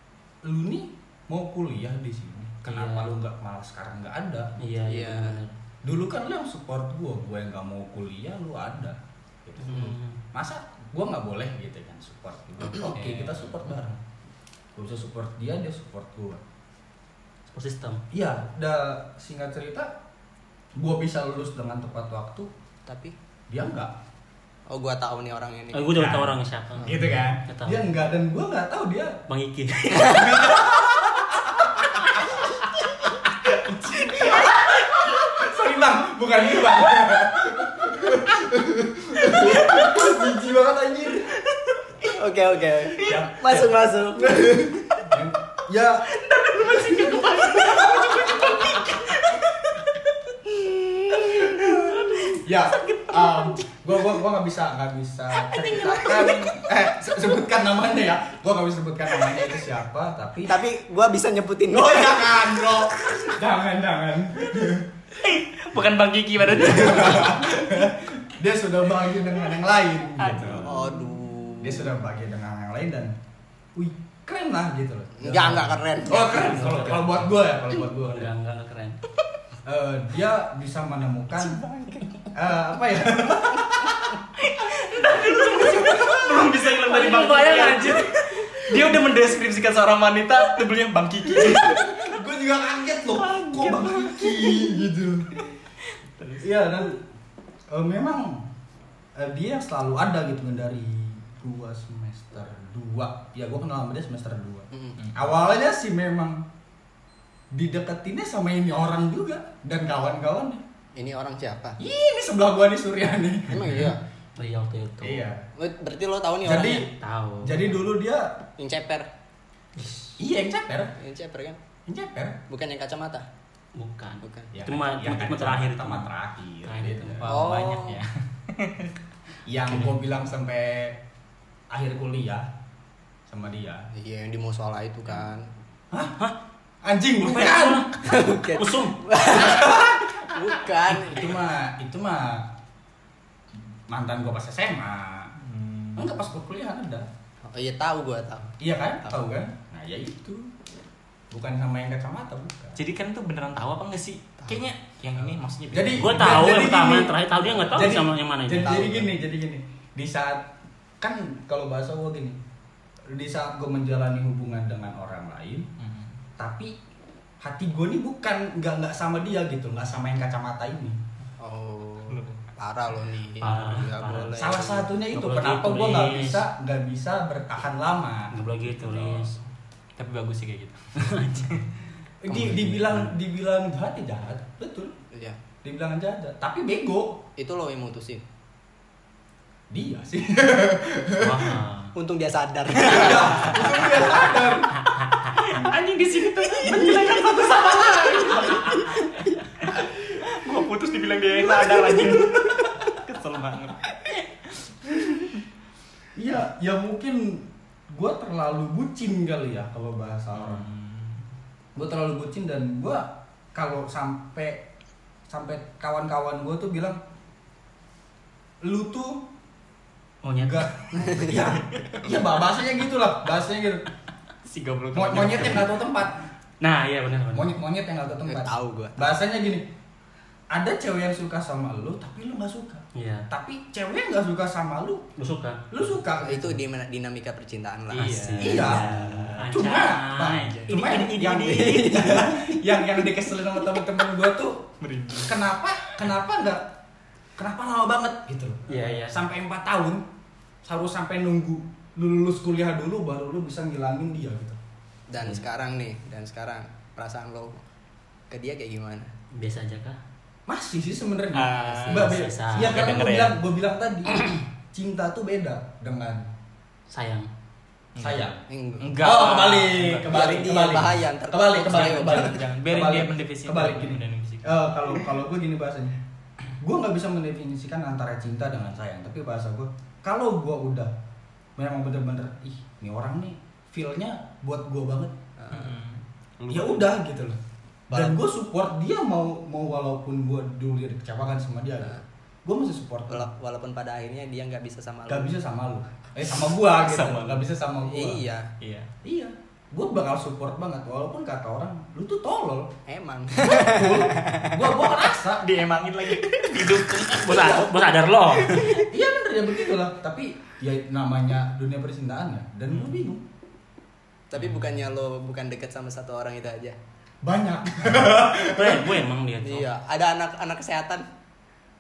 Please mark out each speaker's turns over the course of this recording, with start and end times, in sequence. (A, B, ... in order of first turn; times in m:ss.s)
0:00.4-0:04.6 A
0:02.7-0:03.1 B
0:04.6-0:05.6 B
0:04.9-0:05.4 C
0:05.8-0:14.0 A
0:09.6-0:10.2 B
0:12.8-0:13.4 B
0:14.8-0:16.4 A
0:17.5-0:18.0 B
0:18.1-0:19.9 A
0:20.8-0:22.5 A
0:22.9-0:23.2 C
0:23.5-0:23.9 A
0:24.7-0:26.0 C
0:25.7-0:27.9 B
0:25.9-0:29.2 A
0:29.3-0:30.6 B
0:29.9-0:30.5 C
0:30.1-0:32.5 A
0:33.4-0:41.5 A
0:34.1-0:34.5 C
0:42.1-0:44.7 C
0:43.0-0:43.3 D
0:43.0-0:48.9 A
0:46.1-0:49.6 D
0:50.5-0:53.6 D
0:51.5-1:00.6 A
0:55.4-0:56.5 D
1:00.5-1:02.8 C
1:01.7-1:04.9 A
1:05.2-1:07.6 D
1:06.6-1:11.0 A
1:10.2-1:10.9 D
1:10.6-1:11.9 C
1:11.6-1:13.2 A
1:13.8-1:18.3 A
1:15.2-1:16.5 C
1:16.2-1:19.0 B
1:19.6-1:21.6 A
1:21.4-1:22.3 C
1:22.3-1:24.2 A
1:24.4-1:32.0 D
1:25.3-1:28.1 B
1:31.4-1:35.4 A
1:33.2-1:34.8 D
1:36.1-1:36.5 D
1:36.4-1:37.0 A
1:37.7-1:38.5 A
1:39.2-1:46.5 A
1:47.5-1:50.6 A
1:51.0-1:51.8 C
1:51.8-1:53.9 A
1:53.5-1:54.0 C
1:54.4-1:55.3 B
1:55.0-1:55.5 A
1:55.6-1:56.9 C
1:56.4-1:58.4 A
1:57.0-1:57.8 B
1:58.6-1:59.1 C
2:00.2-2:01.0 A
2:01.0-2:01.6 C
2:01.9-2:02.4 A
2:02.5-2:03.3 C
2:03.8-2:06.1 B
2:04.2-2:04.5 C
2:04.5-2:07.3 A
2:06.6-2:07.2 B
2:07.2-2:08.9 D
2:07.3-2:08.0 C
2:09.5-2:11.0 A
2:11.7-2:12.5 A
2:13.3-2:13.9 A
2:13.9-2:15.5 C
2:16.8-2:17.9 A
2:17.2-2:19.0 B
2:18.0-2:21.4 C
2:19.3-2:20.3 A
2:20.9-2:22.5 A
2:23.9-2:25.3 A
2:25.4-2:26.1 D
2:26.0-2:27.1 A
2:27.5-2:29.1 C
2:28.6-2:30.5 A
2:31.3-2:32.8 A
2:32.8-2:36.6 D
2:35.7-2:42.4 A
2:36.0-2:39.1 B
2:43.1-2:45.7 A
2:45.8-2:46.2 D
2:46.4-2:46.8 A
2:47.4-2:51.0 A
2:51.4-2:54.9 C
2:52.1-2:52.4 D
2:53.4-2:56.4 B
2:54.4-2:59.4 A
2:58.3-2:59.3 B
3:00.0-3:01.6 D
3:01.0-3:01.6 B
3:02.2-3:04.9 A
3:02.3-3:03.1 B
3:05.1-3:05.4 C
3:05.6-3:07.2 A
3:07.4-3:08.2 C
3:09.7-3:11.6 A
3:11.2-3:11.9 B
3:12.0-3:14.0 C
3:12.8-3:14.8 A
3:15.4-3:24.2 D
3:16.6-3:17.5 A
3:18.1-3:18.6 A
3:21.9-3:22.1 C
3:26.2-3:30.7 A
3:30.4-3:31.2 D
3:31.8-3:34.7 A
3:35.3-3:37.0 A
3:38.6-3:39.3 A
3:40.2-3:41.4 B
3:40.4-3:43.9 A
3:41.0-3:41.4 C
3:44.4-3:45.7 D
3:44.9-3:46.2 A
3:46.6-3:47.5 B
3:47.3-3:49.7 A
3:48.3-3:49.1 C
3:50.5-3:55.1 A
3:53.0-3:53.3 B
3:55.2-3:55.6 B
3:55.7-3:56.6 A
3:56.2-3:58.3 C
3:57.9-3:59.7 D
3:57.9-4:02.3 B
3:58.4-4:04.7 A
4:00.3-4:00.9 D
4:01.4-4:02.6 C
4:04.8-4:05.5 D
4:05.3-4:06.7 A
4:07.4-4:10.0 A
4:08.7-4:09.2 B
4:10.6-4:14.6 A
4:15.1-4:17.6 C
4:18.3-4:19.1 C
4:19.3-4:20.0 B
4:20.5-4:26.3 A
4:21.3-4:23.4 D
4:21.8-4:23.0 B
4:26.9-4:27.3 B
4:28.0-4:30.4 D
4:28.0-4:28.4 A
4:28.5-4:29.0 C
4:29.0-4:36.0 A
4:30.1-4:32.5 C
4:31.7-4:34.7 D
4:36.6-4:40.9 A
4:41.6-4:45.2 A
4:45.4-4:45.8 C
4:45.5-4:46.0 D
4:46.5-4:47.4 A
4:47.9-4:48.2 C
4:47.9-4:53.3 A
4:53.1-4:55.3 C
4:55.1-4:58.2 A
4:56.7-4:57.4 D
4:57.8-4:58.5 C
4:58.6-4:58.9 D
4:59.0-5:02.7 A
5:02.9-5:04.7 C
5:03.4-5:05.5 A
5:05.2-5:07.6 D
5:06.5-5:08.9 B
5:08.6-5:13.2 A
5:14.3-5:16.8 C
5:14.4-5:14.8 D
5:17.2-5:19.0 A
5:18.4-5:19.7 B
5:19.4-5:21.1 C